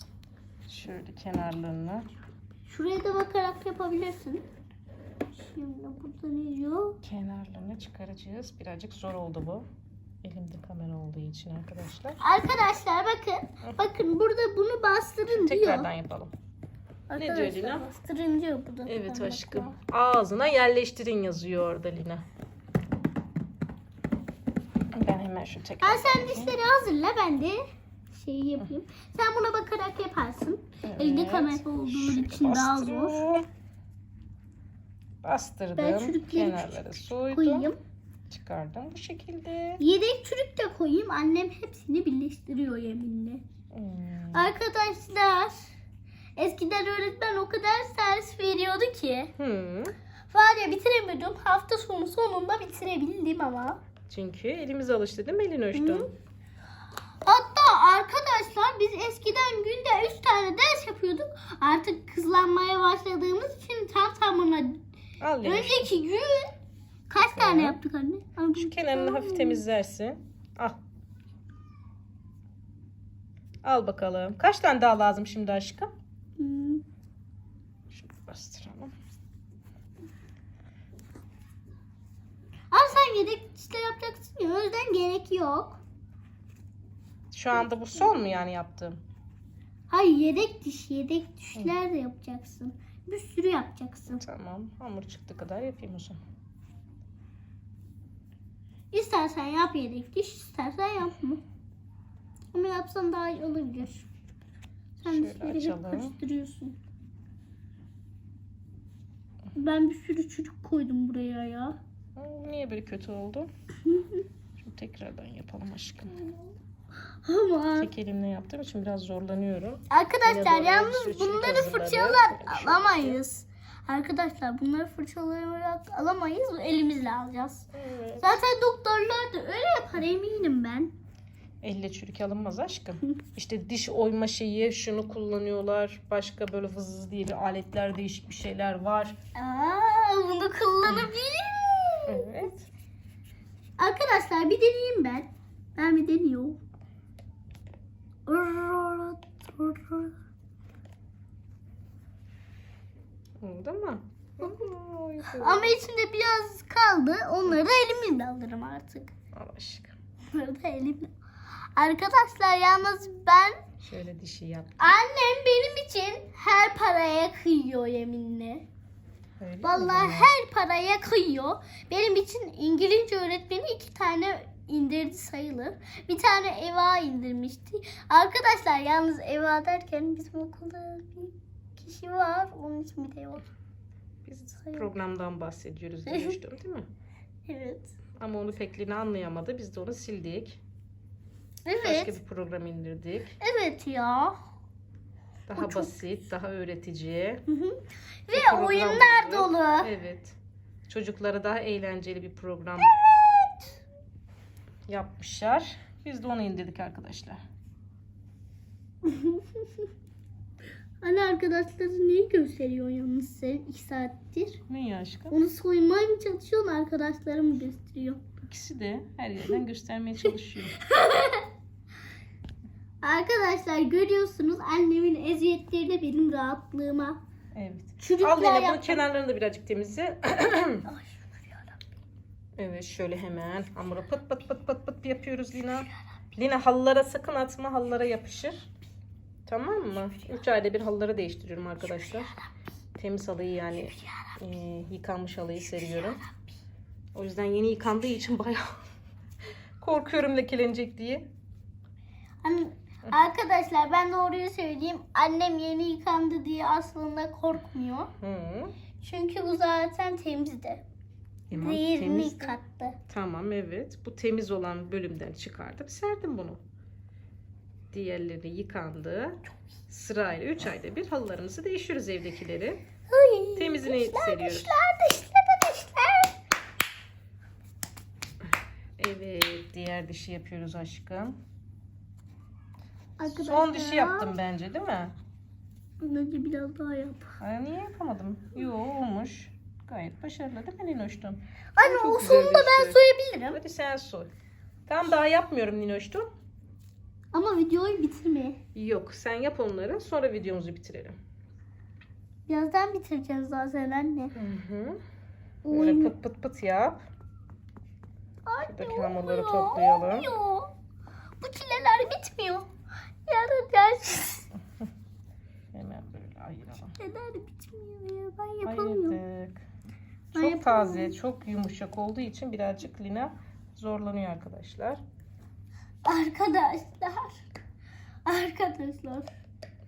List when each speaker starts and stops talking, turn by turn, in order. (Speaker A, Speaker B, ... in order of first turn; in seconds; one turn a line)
Speaker A: 0.7-2.1
Speaker B: 2.7-4.4
Speaker B: 5.4-7.0
Speaker A: 7.0-9.7
Speaker A: 10.2-12.2
Speaker B: 12.2-15.9
Speaker A: 15.3-16.3
Speaker B: 17.1-19.7
Speaker A: 17.2-17.9
Speaker A: 18.9-22.2
Speaker A: 24.9-26.6
Speaker B: 25.8-27.6
Speaker B: 28.1-33.2
Speaker A: 30.8-33.5
Speaker A: 35.2-37.7
Speaker B: 35.8-37.8
Speaker A: 38.3-39.8
Speaker B: 39.8-43.4
Speaker A: 43.7-44.5
Speaker B: 44.3-45.7
Speaker B: 46.4-49.3
Speaker A: 49.4-49.9
Speaker B: 50.3-53.8
Speaker A: 54.1-56.1
Speaker B: 55.7-56.1
Speaker B: 57.2-64.8
Speaker A: 65.2-65.9
Speaker B: 65.4-66.5
Speaker B: 67.1-69.6
Speaker A: 67.2-67.8
Speaker A: 68.6-70.8
Speaker A: 73.6-75.9
Speaker B: 76.4-76.8
Speaker A: 77.9-78.9
Speaker B: 82.7-85.8
Speaker A: 87.3-89.0
Speaker B: 89.9-94.2
Speaker A: 94.2-96.2
Speaker B: 98.9-101.4
Speaker B: 102.5-104.1
Speaker A: 105.0-106.2
Speaker B: 105.0-106.8
Speaker B: 109.5-111.8
Speaker A: 112.2-113.5
Speaker B: 113.9-114.2
Speaker A: 114.6-116.2
Speaker B: 117.2-117.9
Speaker A: 117.8-123.2
Speaker B: 119.9-127.7
Speaker A: 127.7-128.4
Speaker B: 128.2-130.9
Speaker A: 131.6-139.2
Speaker B: 139.3-142.2
Speaker A: 140.8-141.1
Speaker A: 142.1-142.7
Speaker B: 143.8-146.6
Speaker B: 148.3-150.1
Speaker A: 153.4-155.8
Speaker B: 155.4-159.1
Speaker A: 159.3-159.9
Speaker B: 160.3-161.1
Speaker B: 161.8-163.6
Speaker A: 163.8-165.0
Speaker B: 164.8-168.7
Speaker A: 169.4-170.3
Speaker B: 169.6-183.5
Speaker A: 184.3-186.9
Speaker B: 186.1-186.4
Speaker B: 187.5-187.9
Speaker A: 188.2-190.6
Speaker B: 191.7-192.2
Speaker A: 191.8-193.3
Speaker B: 193.4-194.4
Speaker A: 195.5-197.4
Speaker B: 195.6-195.9
Speaker B: 197.5-199.9
Speaker A: 198.3-200.4
Speaker A: 200.9-202.9
Speaker B: 202.9-203.7
Speaker A: 204.9-207.4
Speaker B: 209.0-209.9
Speaker B: 211.0-214.6
Speaker A: 214.7-215.4
Speaker B: 215.3-218.2
Speaker A: 218.4-220.8
Speaker B: 220.8-221.5
Speaker B: 223.0-227.2
Speaker A: 227.6-230.9
Speaker B: 228.0-229.1
Speaker B: 230.9-231.8
Speaker A: 232.6-238.7
Speaker A: 239.5-242.3
Speaker A: 242.9-246.2
Speaker B: 244.0-244.4
Speaker A: 247.1-248.8
Speaker A: 249.8-251.3
Speaker B: 252.4-258.1
Speaker A: 258.2-258.7
Speaker B: 259.0-260.8
Speaker A: 261.5-262.6
Speaker B: 261.6-263.0
Speaker A: 263.1-266.6
Speaker A: 267.9-272.8
Speaker B: 273.1-276.4
Speaker A: 273.6-274.7
Speaker A: 279.0-281.4
Speaker B: 283.2-284.4
Speaker A: 283.3-285.1
Speaker B: 286.0-287.4
Speaker A: 287.4-293.0
Speaker B: 291.8-293.6
Speaker A: 293.5-294.3
Speaker A: 294.9-296.3
Speaker B: 297.3-298.6
Speaker A: 298.8-301.2
Speaker B: 302.5-304.4
Speaker A: 304.4-305.0
Speaker B: 305.6-306.1
Speaker A: 305.7-307.0
Speaker B: 308.5-310.7
Speaker A: 308.7-310.3
Speaker B: 311.4-312.7
Speaker B: 313.3-314.5
Speaker A: 315.7-316.9
Speaker B: 317.0-319.2
Speaker A: 318.6-319.6
Speaker B: 320.3-321.1
Speaker A: 320.3-325.0
Speaker B: 326.1-327.4
Speaker B: 328.2-329.3